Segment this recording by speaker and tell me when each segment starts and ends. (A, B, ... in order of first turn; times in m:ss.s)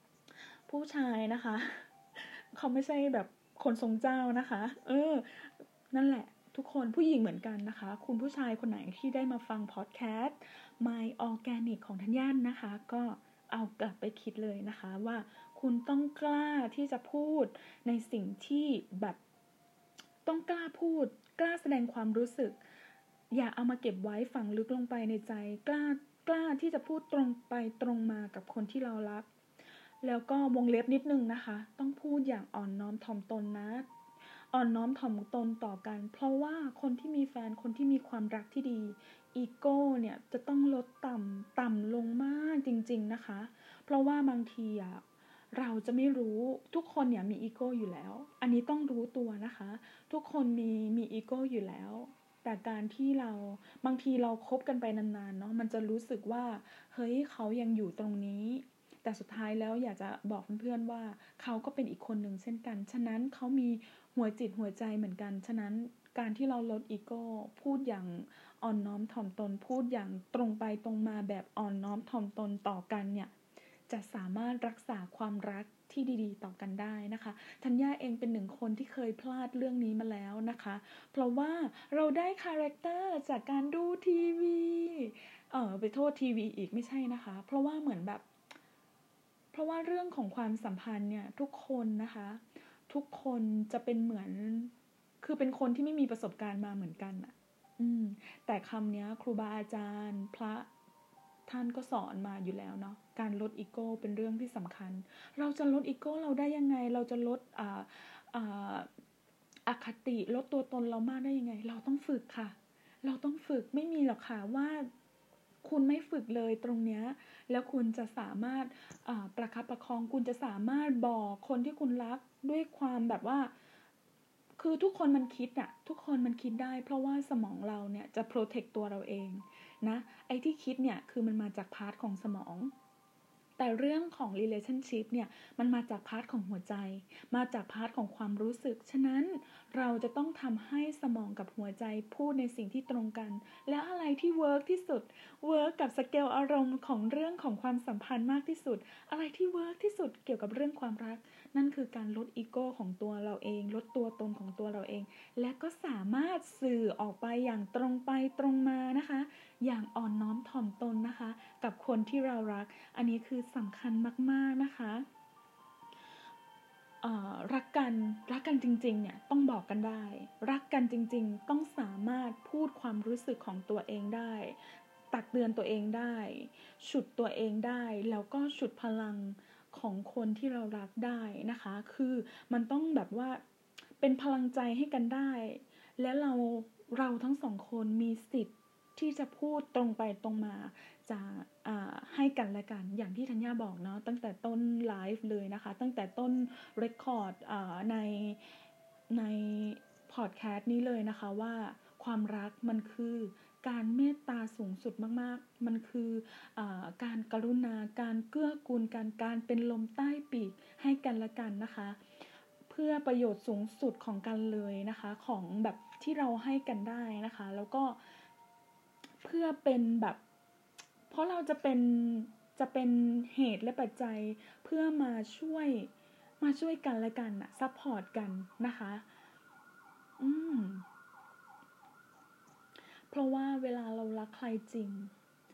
0:00.7-0:19.2 A
0:20.2-0:22.6 A
0:23.3-0:29.3 A
0:30.0-0:33.9 A
0:34.5-1:13.3 A
1:13.9-1:28.2 A
1:29.5-1:40.7 A
1:41.5-1:48.9 A
1:49.7-1:54.9 A
1:55.6-2:03.5 A
2:04.6-2:12.7 A
2:13.6-2:45.0 A
2:47.0-2:54.6 A
2:55.1-3:03.4 A
3:04.0-3:18.4 A
3:19.1-3:32.0 A
3:32.7-3:38.0 A
3:39.2-3:40.2 A
3:41.1-3:49.0 A
3:50.2-3:50.8 A
3:53.1-3:55.1 A